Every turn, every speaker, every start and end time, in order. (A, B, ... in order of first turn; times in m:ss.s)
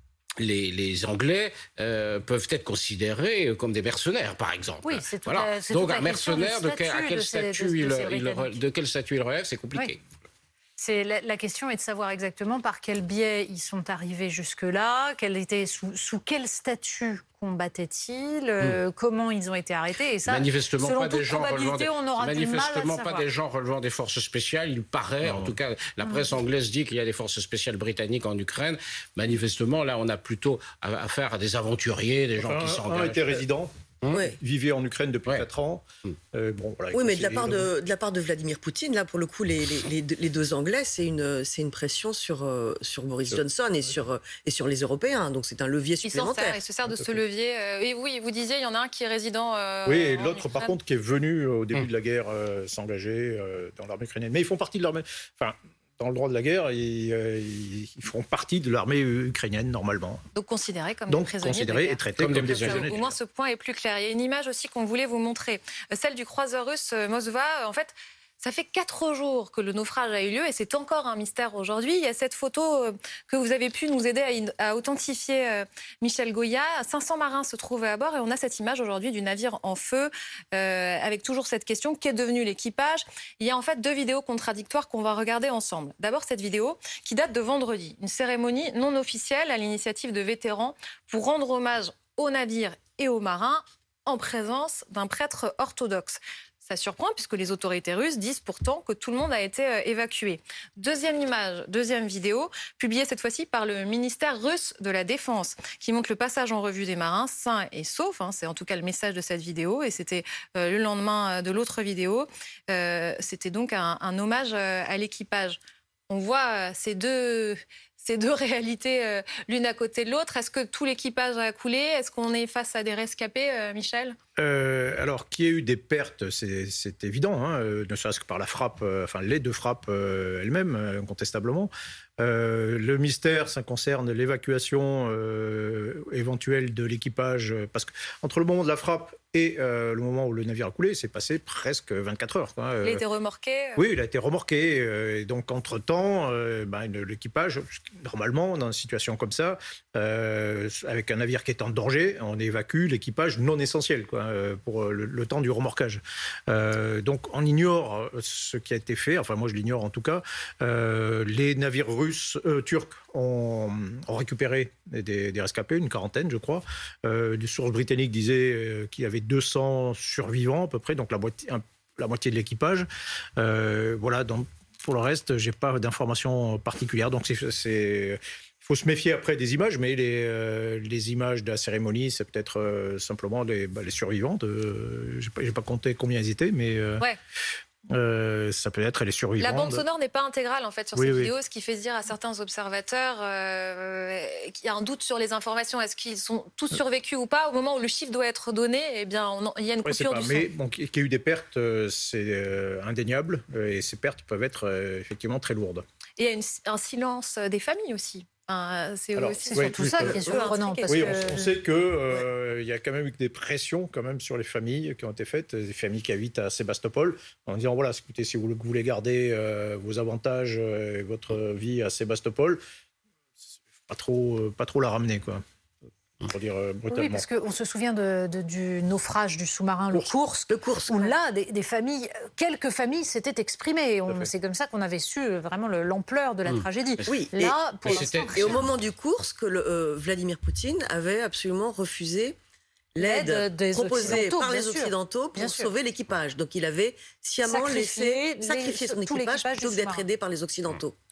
0:00.4-0:10.0 A
0:04.8-0:08.6 B
0:10.8-0:23.2 B
0:20.3-0:33.4 A
0:25.2-0:25.6 C
0:26.0-0:26.3 B
0:32.4-0:37.7 C
0:34.0-0:34.3 A
0:36.9-0:46.6 D
0:46.0-0:50.7 E
0:49.9-1:00.2 C
1:00.4-2:04.2 E
1:01.1-1:03.2 C
1:02.2-1:02.9 A
2:04.4-2:23.0 C
2:22.8-2:23.8 E
2:23.8-3:07.0 C
3:07.9-3:09.8 C
3:09.4-3:20.5 E
3:11.0-3:11.3 C
3:19.8-3:25.8 C
3:26.2-3:31.2 E
3:29.2-3:30.2 C
3:29.5-3:31.5 B
3:30.9-3:42.6 C
3:43.9-3:45.4 C
3:46.2-3:47.2 C
3:46.9-3:58.8 B
3:50.5-3:51.2 D
3:54.1-3:54.3 C
3:56.5-3:57.1 A
3:57.1-4:02.4 D
3:57.8-3:58.6 A
4:03.0-4:11.0 D
4:03.0-4:05.7 B
4:07.4-4:10.0 B